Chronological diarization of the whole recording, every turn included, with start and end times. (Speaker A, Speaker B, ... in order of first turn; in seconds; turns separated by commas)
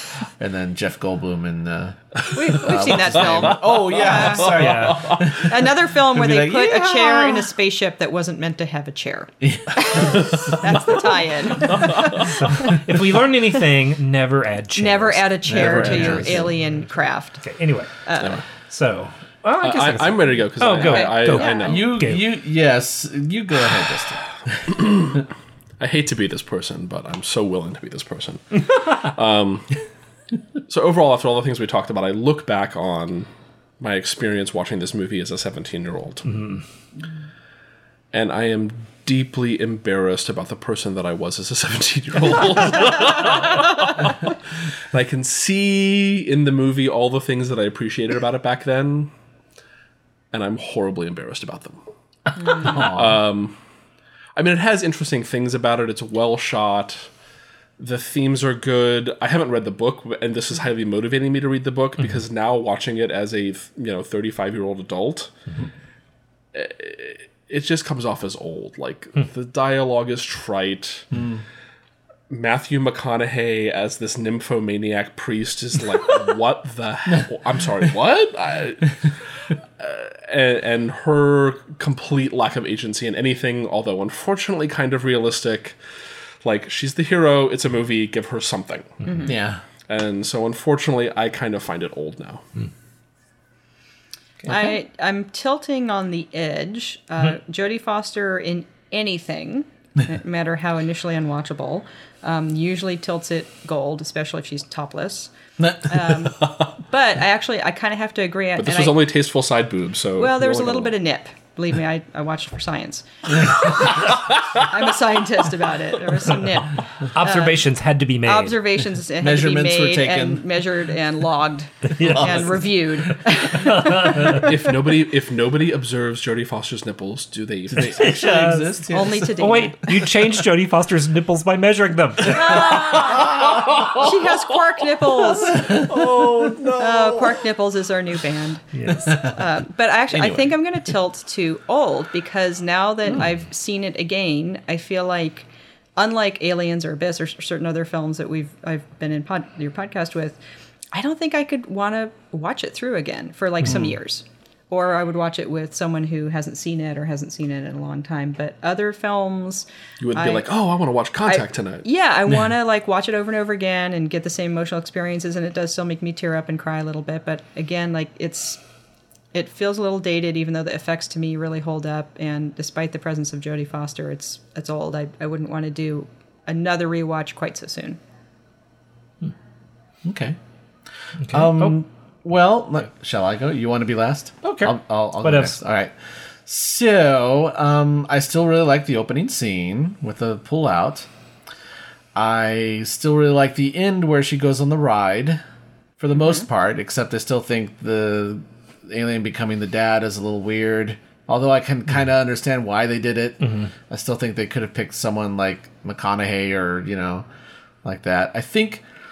Speaker A: 0.4-7.5, Speaker B: 2.3-12.8, Speaker C: 3.3-5.2, Speaker D: 4.5-5.2, Speaker A: 9.4-10.4, Speaker C: 11.6-12.3, Speaker D: 12.2-16.9, Speaker B: 14.8-17.4, Speaker A: 15.5-16.5, Speaker D: 17.4-17.9, Speaker B: 18.0-18.4, Speaker D: 18.7-22.3, Speaker C: 19.6-21.9, Speaker B: 20.7-21.9, Speaker A: 21.6-24.3, Speaker C: 24.6-25.3, Speaker C: 25.8-29.8, Speaker C: 30.7-33.3, Speaker C: 33.8-36.4, Speaker D: 36.3-36.6, Speaker C: 38.1-44.4, Speaker C: 44.9-49.1, Speaker C: 50.3-51.8, Speaker C: 52.4-53.6, Speaker A: 52.6-53.2, Speaker C: 54.4-57.1, Speaker C: 57.8-65.3, Speaker C: 66.5-71.1, Speaker A: 71.1-71.4, Speaker C: 72.3-85.8, Speaker C: 86.4-89.0, Speaker B: 89.0-89.3, Speaker A: 89.2-89.6, Speaker C: 89.9-92.4, Speaker B: 94.5-109.0, Speaker A: 105.6-105.9, Speaker C: 108.6-110.9, Speaker B: 110.2-117.7, Speaker C: 113.9-114.3, Speaker D: 117.1-118.7, Speaker B: 118.2-124.4, Speaker A: 119.2-120.5, Speaker D: 121.9-122.8, Speaker A: 122.0-122.5, Speaker D: 123.5-124.5, Speaker C: 124.2-128.2, Speaker A: 127.7-129.4, Speaker D: 127.8-133.0, Speaker B: 128.9-129.9, Speaker B: 132.3-135.9, Speaker C: 132.7-134.0, Speaker A: 135.5-137.1, Speaker C: 135.7-136.9, Speaker B: 136.7-150.4, Speaker D: 138.7-139.2, Speaker A: 138.9-139.4, Speaker A: 140.1-140.6, Speaker B: 150.9-160.5, Speaker C: 160.0-161.9, Speaker B: 161.3-168.6, Speaker B: 169.3-178.0, Speaker A: 180.0-180.4, Speaker D: 181.2-181.8, Speaker A: 181.3-185.9, Speaker D: 184.4-185.6, Speaker A: 186.5-191.1, Speaker A: 192.2-195.4, Speaker A: 196.0-207.2, Speaker D: 203.4-203.7, Speaker A: 207.8-208.8